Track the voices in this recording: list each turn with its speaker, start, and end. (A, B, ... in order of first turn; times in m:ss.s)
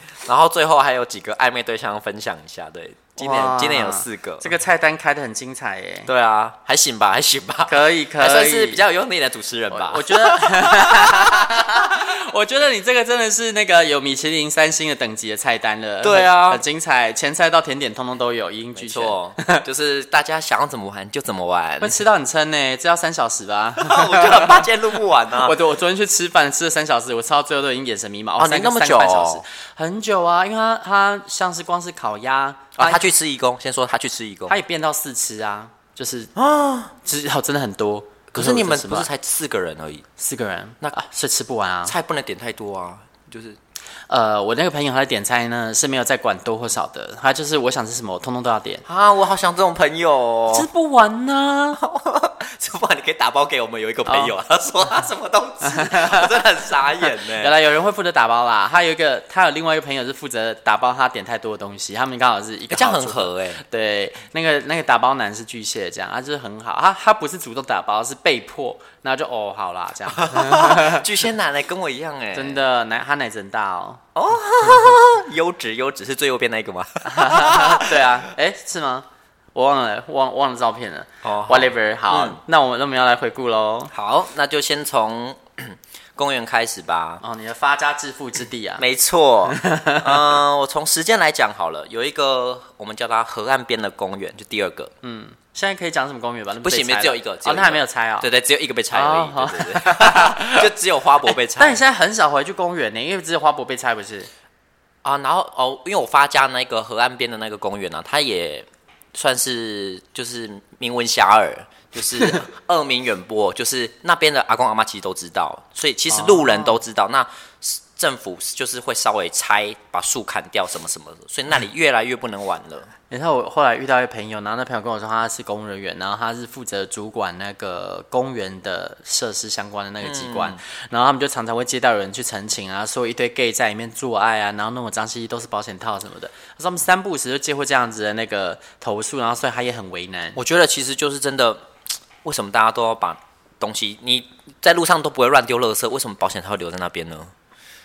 0:00.2-0:04.5 A
0:03.2-0:06.1 B
0:06.1-0:11.5 A
0:07.7-0:08.8 B
0:09.7-0:19.6 B
0:16.0-0:16.6 A
0:18.8-0:22.0 A
0:21.8-0:24.7 B
0:23.8-0:25.6 A
0:25.3-0:33.1 B
0:28.4-0:29.4 A
0:32.8-0:34.6 A
0:34.5-0:36.3 B
0:36.4-0:36.9 A
0:37.0-0:39.1 B
0:38.3-0:40.1 A
0:40.2-0:41.9 B
0:41.9-0:43.6 A
0:44.1-0:48.8 B
0:48.9-0:50.7 A
0:50.5-0:51.8 B
0:51.8-0:57.5 A
0:54.1-0:54.3 B
0:55.7-0:56.4 B
0:57.0-1:11.0 B
1:02.7-1:03.6 A
1:10.1-1:12.6 A
1:12.3-1:14.0 B
1:14.2-1:18.3 A
1:17.0-1:23.9 B
1:21.2-1:22.4 A
1:23.9-1:27.2 A
1:27.2-1:28.8 B
1:28.8-1:34.9 A
1:29.5-1:30.4 B
1:35.0-1:38.3 B
1:36.6-1:41.8 A
1:38.9-1:40.7 B
1:41.6-1:44.3 B
1:45.0-2:02.9 A
1:52.2-1:52.4 B
1:56.1-1:56.8 B
2:03.1-2:20.4 B
2:10.0-2:10.6 A
2:20.4-2:21.6 A
2:22.2-2:27.3 A